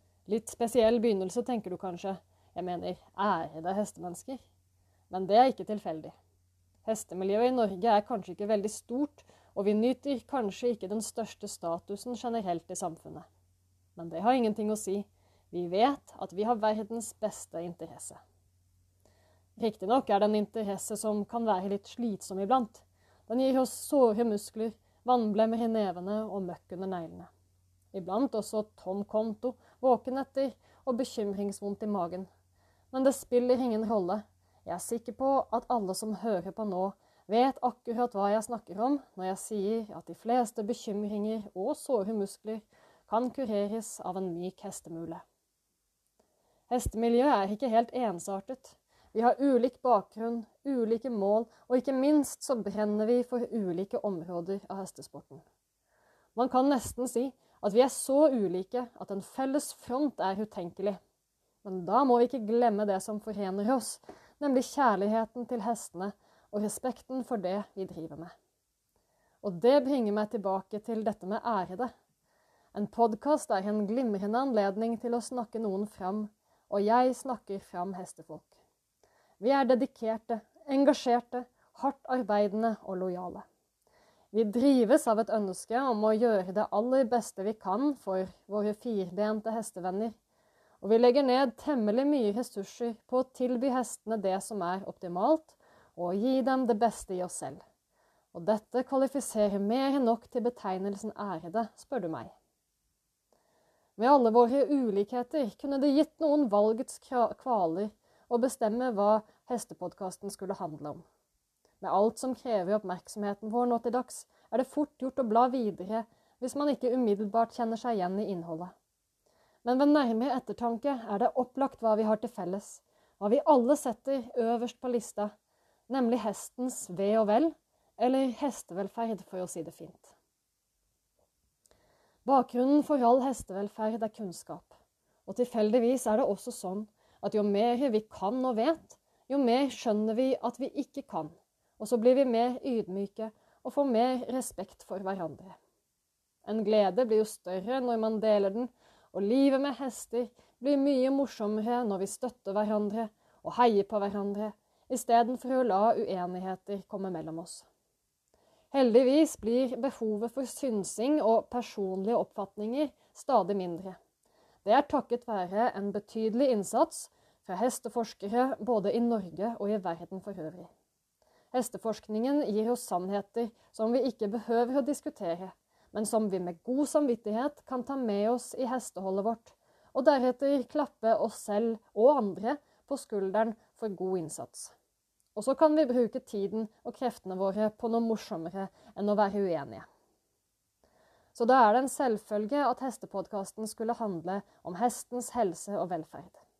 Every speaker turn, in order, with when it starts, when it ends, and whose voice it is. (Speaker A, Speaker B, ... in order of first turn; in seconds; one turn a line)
Speaker A: 0.3-4.4
Speaker A: 5.1-6.2
Speaker A: 6.8-13.3
Speaker A: 14.0-18.2
Speaker A: 19.6-27.3
Speaker A: 27.9-32.3
Speaker A: 32.9-45.2
Speaker A: 46.7-55.4
Speaker A: 56.4-61.0
Speaker A: 61.6-68.3
Speaker A: 69.4-71.9
Speaker A: 72.7-78.5
Speaker A: 79.4-83.5
Speaker A: 84.3-90.2
Speaker A: 90.8-97.6
Speaker A: 98.3-102.3
Speaker A: 104.0-111.0
Speaker A: 111.8-118.7
Speaker A: 119.6-125.3
Speaker A: 125.9-130.2
Speaker A: 132.2-134.7
Speaker A: 135.3-145.6
Speaker A: 146.4-157.7
Speaker A: 158.7-164.0
Speaker A: 164.7-170.7
Speaker A: 171.5-184.7
Speaker A: 185.4-189.9
Speaker A: 191.3-196.4